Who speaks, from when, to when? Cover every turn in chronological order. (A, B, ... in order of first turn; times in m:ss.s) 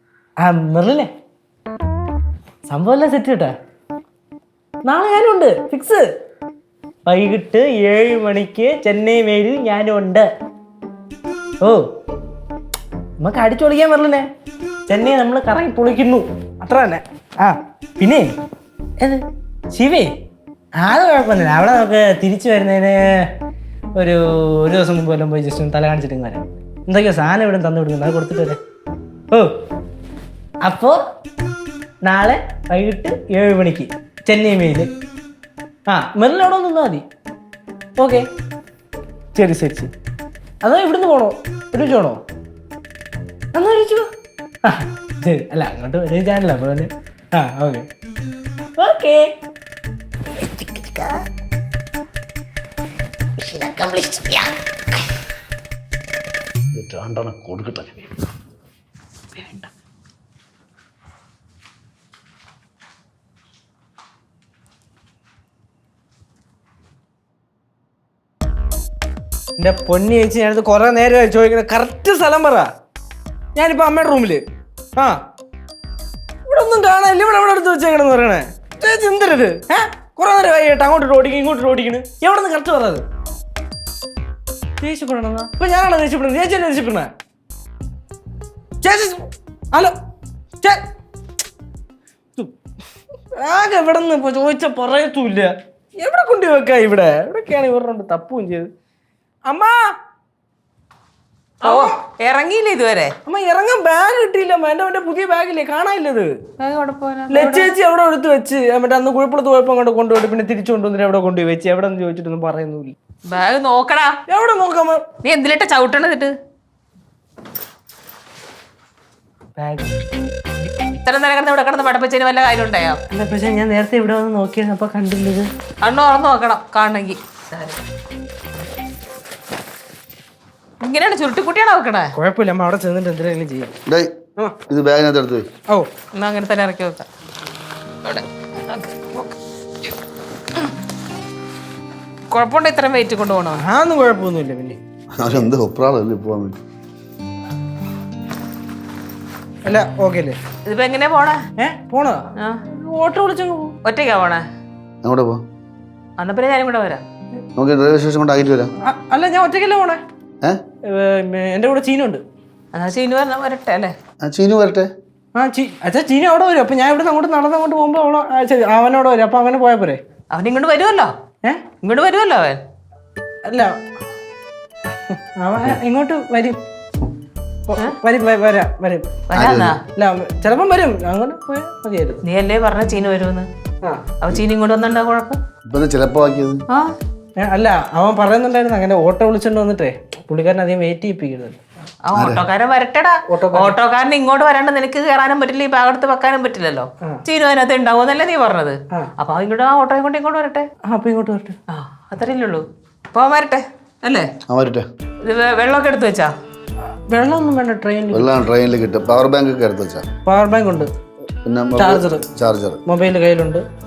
0:00.4-0:01.1 A
0:02.7-0:03.5 A
0:04.8-0:06.1 A
0:07.1-0:10.3 A
0:11.6-0:11.9 A
0:13.2-0:14.3 A
0:14.9-0:18.3 A
0:19.0-0:20.1 A
0:20.8-0:23.3 A
0:24.0-0:28.6 A
0:30.6-0:31.0 A
0:32.0-0:34.9 A
0:35.9-0:37.0 A
0:38.0-0:38.3 A
0:39.3-0:39.9 A
0:40.6-0:42.2 A
0:43.5-0:44.1 A
0:44.6-0:47.9 A
0:48.8-0:49.3 A
0:50.5-0:51.1 B
0:53.4-0:54.5 B
0:56.7-0:58.2 C
0:59.4-0:59.7 B
1:09.6-1:12.7 A
1:13.6-1:14.4 A
1:16.5-1:23.0 A
1:24.8-1:27.1 A
1:28.8-1:30.0 A
1:33.3-1:38.7 A
1:39.5-1:39.9 A
1:41.6-1:42.0 A
1:41.6-1:43.1 D
1:43.3-1:46.3 A
1:46.6-1:47.7 D
1:47.3-1:53.0 A
1:53.3-1:54.2 D
1:54.3-1:55.0 A
1:55.2-1:56.3 D
1:59.6-2:00.0 A
2:01.0-2:03.0 D
2:03.1-2:05.5 A
2:05.8-2:07.8 D
2:10.8-2:12.1 D
2:12.2-2:13.7 A
2:13.9-2:14.1 C
2:14.7-2:15.5 C
2:16.2-2:17.1 D
2:18.0-2:19.4 D
2:22.3-2:23.6 D
2:23.6-2:24.8 A
2:25.2-2:26.6 C
2:29.6-2:30.4 A
2:30.7-2:31.4 D
2:31.6-2:33.8 A
2:33.8-2:34.4 D
2:35.0-2:35.4 C
2:36.2-2:37.0 D
2:37.6-2:38.7 C
2:38.8-2:40.0 A
2:40.9-2:42.2 A
2:42.7-2:43.9 D
2:44.2-2:44.9 C
2:45.3-2:50.0 A
2:50.3-2:51.1 D
2:51.8-2:52.6 D
2:53.5-2:53.8 A
2:55.0-2:56.6 A
2:57.7-2:59.1 A
2:59.3-2:59.8 D
2:59.3-2:59.8 C
2:59.9-3:02.2 A
3:02.2-3:03.5 D
3:04.2-3:05.4 D
3:05.6-3:06.6 C
3:07.4-3:11.6 A
3:12.0-3:20.7 D
3:12.1-3:12.5 C
3:13.3-3:13.8 A
3:20.8-3:21.6 A
3:21.7-3:24.3 D
3:24.5-3:24.8 C
3:25.2-3:26.3 D
3:27.1-3:28.3 A
3:28.1-3:30.0 C
3:30.3-3:30.9 A
3:31.4-3:32.8 C
3:31.8-3:32.3 A
3:32.9-3:33.6 A